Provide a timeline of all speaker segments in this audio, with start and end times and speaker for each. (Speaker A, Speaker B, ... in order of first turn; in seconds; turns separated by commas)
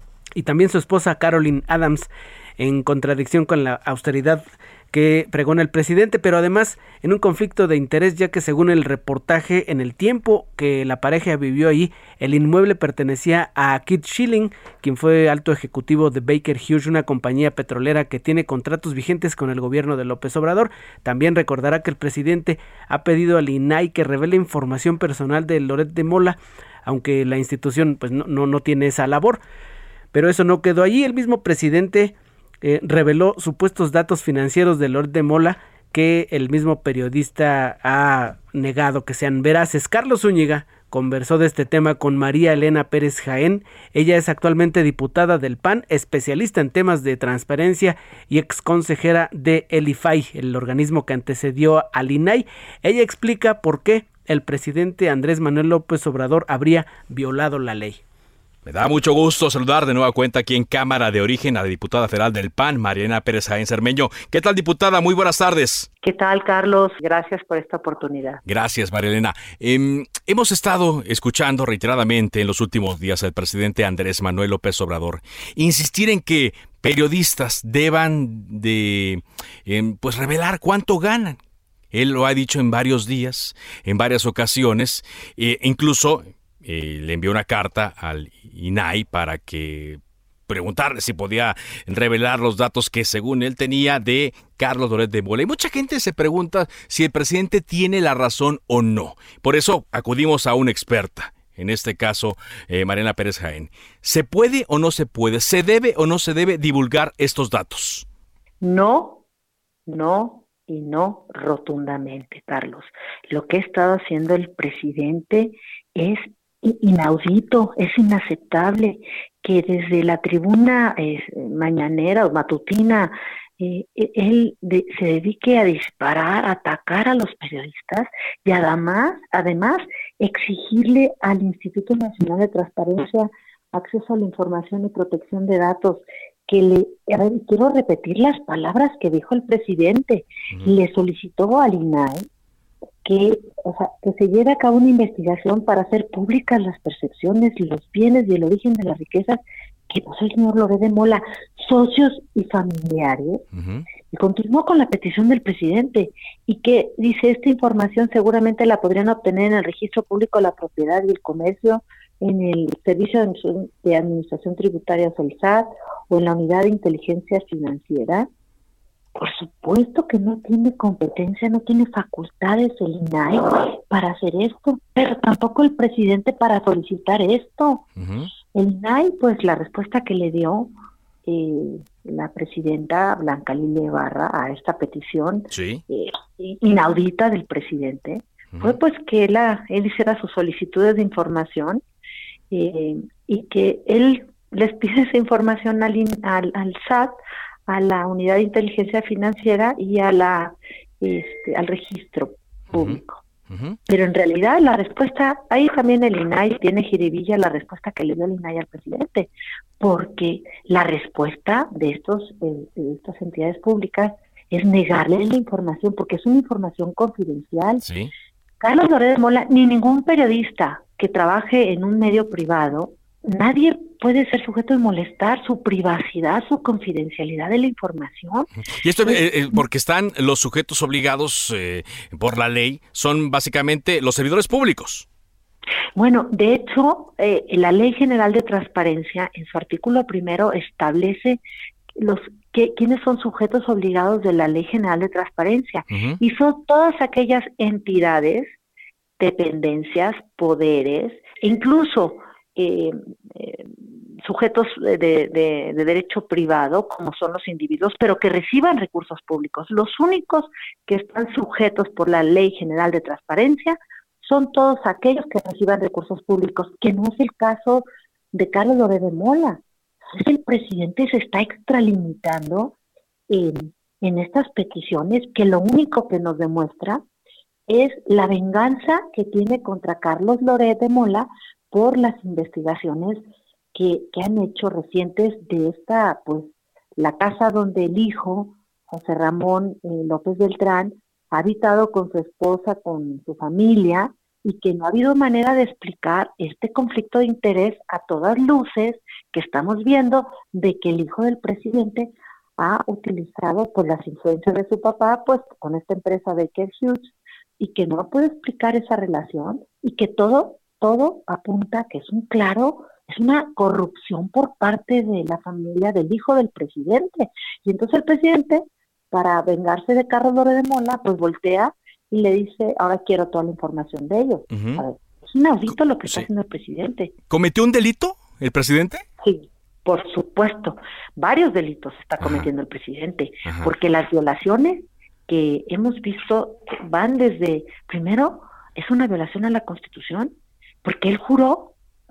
Speaker A: 0.4-29.4, Speaker A: 30.1-58.0, Speaker B: 58.7-65.9, Speaker C: 66.0-68.4, Speaker B: 68.5-81.4, Speaker B: 81.9-108.1, Speaker C: 108.6-109.2, Speaker C: 109.9-142.3, Speaker C: 143.1-153.4, Speaker B: 153.6-153.9, Speaker C: 154.1-168.3, Speaker C: 169.2-177.8, Speaker B: 178.0-178.3, Speaker C: 178.5-180.7, Speaker C: 181.3-191.8, Speaker B: 185.5-185.8, Speaker B: 188.5-188.8, Speaker C: 192.5-197.1, Speaker C: 197.7-203.2, Speaker B: 202.7-203.8, Speaker C: 203.9-217.9, Speaker B: 217.8-218.1, Speaker C: 218.6-228.5, Speaker B: 228.8-235.1, Speaker C: 229.0-229.7, Speaker C: 236.0-241.4, Speaker C: 242.0-248.6, Speaker B: 245.9-246.2, Speaker C: 249.2-269.6, Speaker C: 270.1-272.8, Speaker C: 273.3-277.0, Speaker C: 277.7-327.1, Speaker B: 324.5-324.8, Speaker B: 325.7-326.3, Speaker B: 327.3-329.0, Speaker C: 329.2-341.7, Speaker B: 332.2-332.5, Speaker B: 333.4-333.7